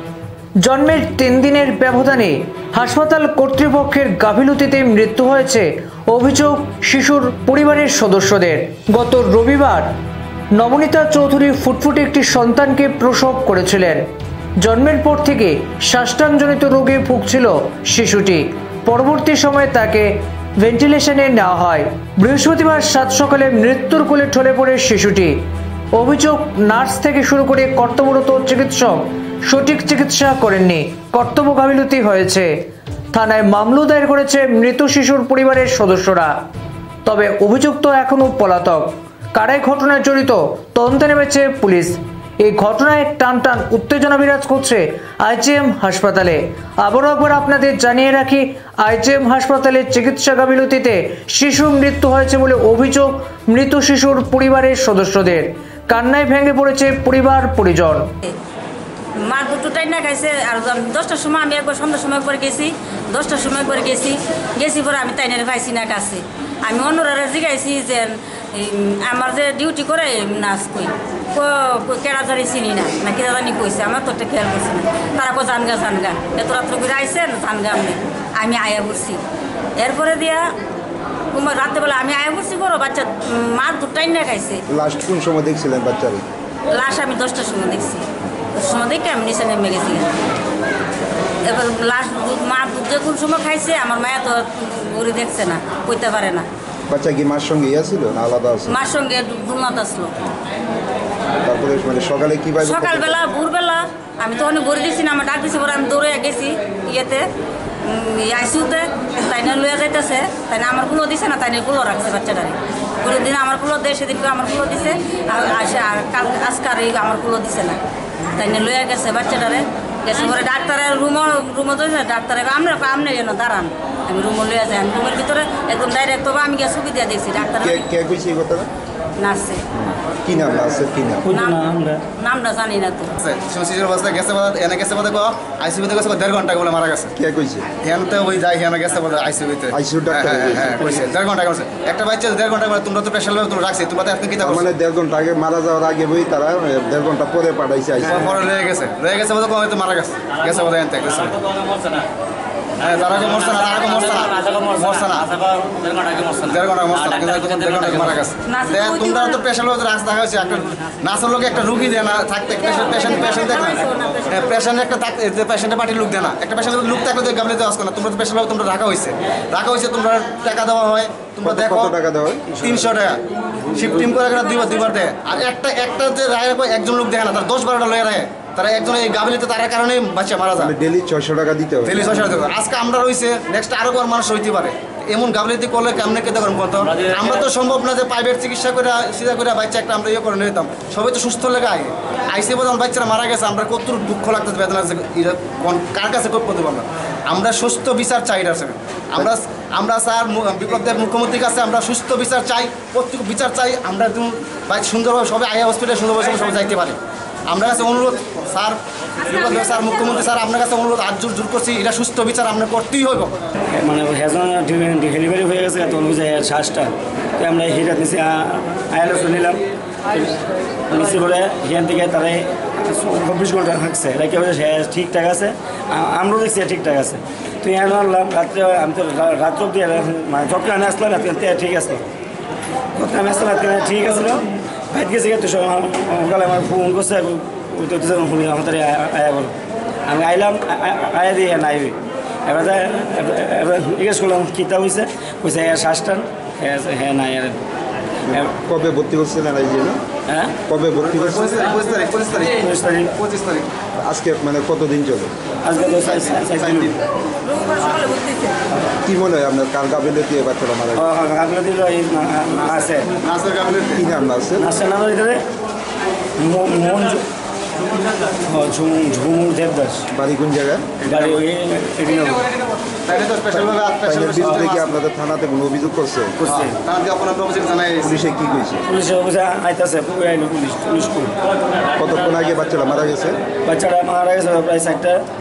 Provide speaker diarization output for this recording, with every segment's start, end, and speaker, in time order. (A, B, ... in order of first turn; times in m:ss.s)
0:00.6-0:09.9 A
0:10.5-0:14.1 A
0:14.6-0:25.4 A
0:25.9-0:32.6 A
0:33.1-0:36.4 A
0:37.0-0:58.1 A
0:59.2-1:19.2 B
1:19.8-1:20.5 B
1:21.3-1:24.6 B
1:24.7-1:26.3 C
1:26.7-1:30.1 B
1:31.4-1:36.5 B
1:36.9-1:38.8 C
1:38.7-1:40.2 B
1:41.4-1:43.2 C
1:42.6-1:47.3 B
1:47.8-1:57.8 B
1:58.3-2:07.8 B
2:07.6-2:08.7 C
2:09.2-2:09.6 B
2:09.7-2:11.3 C
2:11.2-2:12.0 D
2:11.3-2:13.2 B
2:13.2-2:17.1 E
2:17.2-2:17.7 C
2:17.8-2:24.7 E
2:19.7-2:20.9 C
2:24.4-2:28.3 C
2:28.1-2:31.8 E
2:32.8-2:35.6 E
2:36.3-2:51.9 E
2:38.5-2:39.4 B
2:42.8-2:44.6 B
2:51.4-2:52.5 C
2:52.6-2:53.2 E
2:53.7-3:00.7 E
3:00.6-3:02.2 C
3:01.9-3:27.0 E
3:27.5-3:33.3 E
3:33.7-3:52.0 D
3:53.0-3:59.5 D
4:00.1-4:07.6 D
4:08.3-4:10.0 C
4:10.3-4:10.6 D
4:10.6-4:11.6 C
4:11.1-4:13.7 E
4:12.5-4:13.2 D
4:14.0-4:15.3 C
4:15.6-4:17.0 D
4:16.0-4:17.0 E
4:17.4-4:18.6 B
4:19.0-4:21.1 C
4:21.0-4:23.1 D
4:23.2-4:24.0 E
4:24.0-4:24.7 C
4:24.6-4:25.4 D
4:26.4-4:27.2 D
4:28.3-4:30.0 D
4:30.1-4:30.9 C
4:31.0-4:32.5 D
4:33.1-4:35.0 E
4:34.0-4:36.4 C
4:36.5-4:36.8 D
4:36.5-4:38.2 E
4:38.0-4:38.9 C
4:38.9-4:41.4 D
4:42.0-4:43.4 C
4:43.6-4:45.2 D